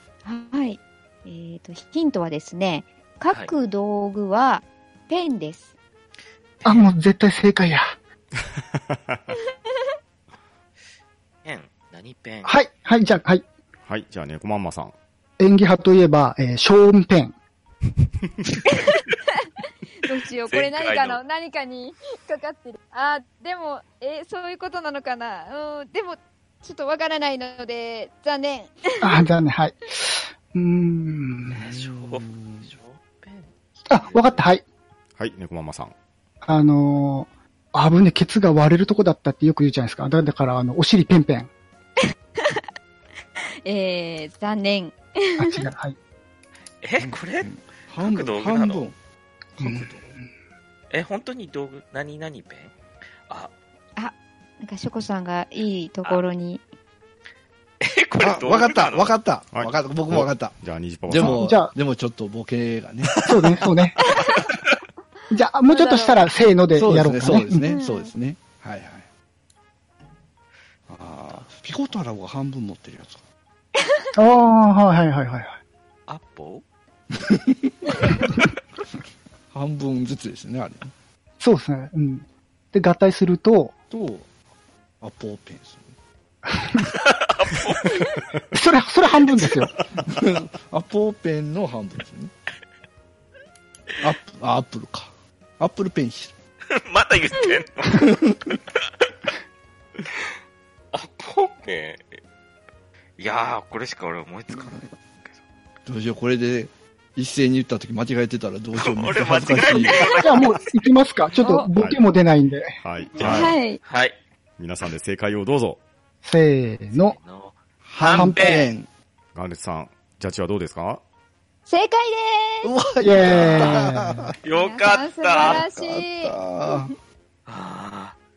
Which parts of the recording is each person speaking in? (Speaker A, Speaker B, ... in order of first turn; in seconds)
Speaker A: 0.2-5.7, 18.7-19.1, 20.0-29.2, 43.6-45.6, 54.0-56.6, 64.1-64.4, 65.7-66.3, 67.6-68.1, 113.2-113.8, 121.7-122.7, 124.5-126.8
Speaker B: 6.6-6.9, 11.4-12.6, 20.5-21.2, 31.6-34.4, 46.8-48.9, 50.9-52.7, 57.8-59.1, 63.1-64.5, 76.1-76.6, 86.9-88.2, 96.7-98.6, 100.9-102.2, 103.2-105.4, 108.8-110.8, 111.3-111.6, 113.2-114.2, 116.9-118.7, 123.4-123.8, 124.4-125.6, 127.5-128.2
Speaker C: 6.6-7.9, 12.4-13.4, 15.4-17.3, 29.0-31.6, 33.9-34.6, 36.4-41.5, 45.4-46.0, 49.6-49.9, 61.2-61.7, 63.2-64.0, 65.3-67.7, 74.1-75.6, 81.4-83.7, 88.5-89.7, 110.0-112.8, 116.2-117.2, 118.0-118.7, 123.0-124.3
Speaker D: 8.8-9.2, 13.8-14.9, 35.2-35.9, 59.5-61.5, 111.7-112.0, 112.8-113.6, 114.6-115.8, 119.3-121.0
Speaker E: 31.5-32.7, 47.0-49.0, 49.6-50.2, 58.2-63.6, 66.7-69.1, 70.9-73.2, 77.2-78.1, 79.5-80.9, 83.9-84.3, 85.0-85.9, 90.0-92.3, 94.0-96.3, 98.0-98.4, 105.8-110.1, 117.8-118.9, 122.6-124.3, 125.4-126.9